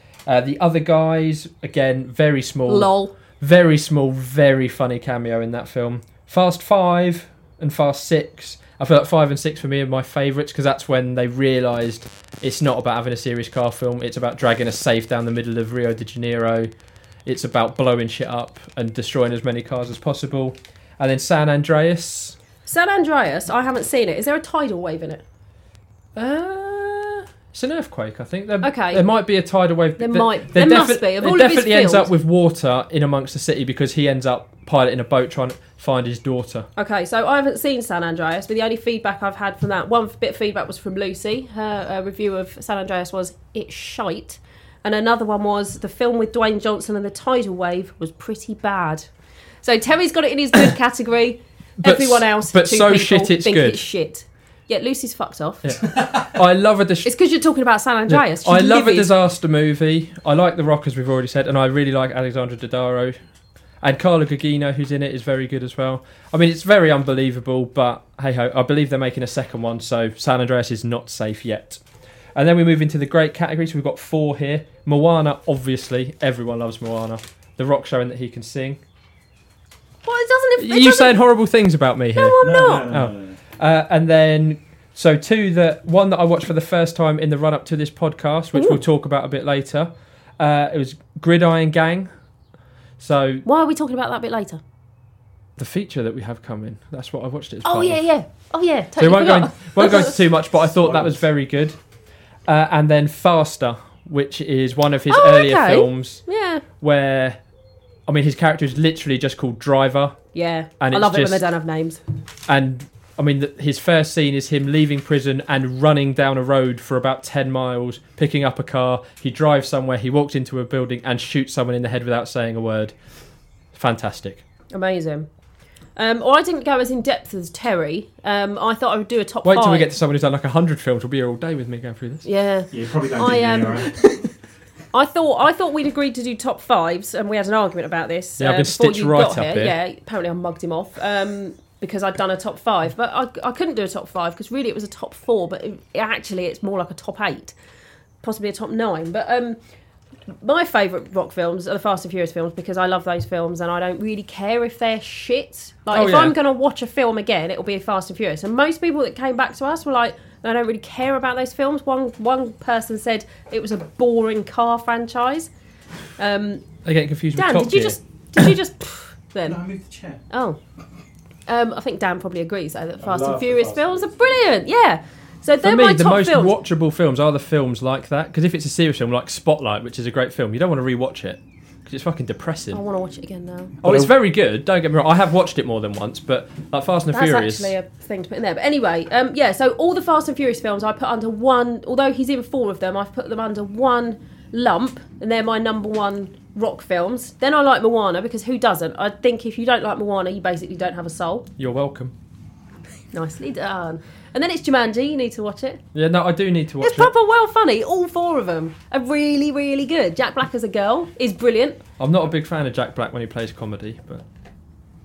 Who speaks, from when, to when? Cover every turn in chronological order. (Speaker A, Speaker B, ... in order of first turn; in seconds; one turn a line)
Speaker A: 0.3-16.7
Speaker B: 2.7-3.1
Speaker A: 17.2-22.4
Speaker B: 22.7-25.2
Speaker A: 26.1-36.7
Speaker B: 28.6-29.1
Speaker B: 30.0-32.1
Speaker B: 36.8-49.1
Speaker B: 49.6-55.8
Speaker A: 51.8-53.8
Speaker A: 55.6-57.1
Speaker B: 57.0-59.1
Speaker A: 58.1-63.2
Speaker A: 63.8-71.8
Speaker A: 72.3-78.8
Speaker B: 80.0-81.2
Speaker A: 80.6-92.1
Speaker B: 82.2-82.9
Speaker C: 82.4-83.4
Speaker A: 93.0-93.5
Speaker B: 93.5-94.6
Speaker A: 95.6-98.0
Speaker B: 97.7-100.2
Speaker A: 99.0-101.8
Speaker C: 100.8-101.2
Speaker A: 102.5-106.2
Speaker B: 105.1-106.6
Speaker A: 106.8-107.4
Speaker A: 108.1-110.2
Speaker B: 110.3-112.0
Speaker A: 110.8-111.5
Speaker A: 112.5-122.9
Speaker A: 123.7-124.4
Speaker B: 124.7-125.3
Speaker B: 126.0-129.9
Speaker A: 129.4-132.2
Speaker B: 132.2-134.2
Speaker C: 132.7-134.0
Speaker B: 134.9-147.6
Speaker A: 138.4-139.8
Speaker B: 148.2-149.6
Speaker B: 150.4-165.5
Speaker A: 155.9-156.4
Speaker B: 166.2-166.7
Speaker A: 166.8-168.5
Speaker B: 167.4-169.6
Speaker C: 169.5-170.2
Speaker B: 170.3-170.6
Speaker B: 171.5-176.5
Speaker C: 173.0-174.1
Speaker A: 175.6-182.8
Speaker B: 182.7-183.8
Speaker C: 183.8-184.1
Speaker A: 183.8-187.7
Speaker B: 187.1-201.5
Speaker A: 201.6-202.1
Speaker B: 203.1-205.8
Speaker A: 205.9-207.1
Speaker B: 206.8-211.8
Speaker A: 212.0-214.2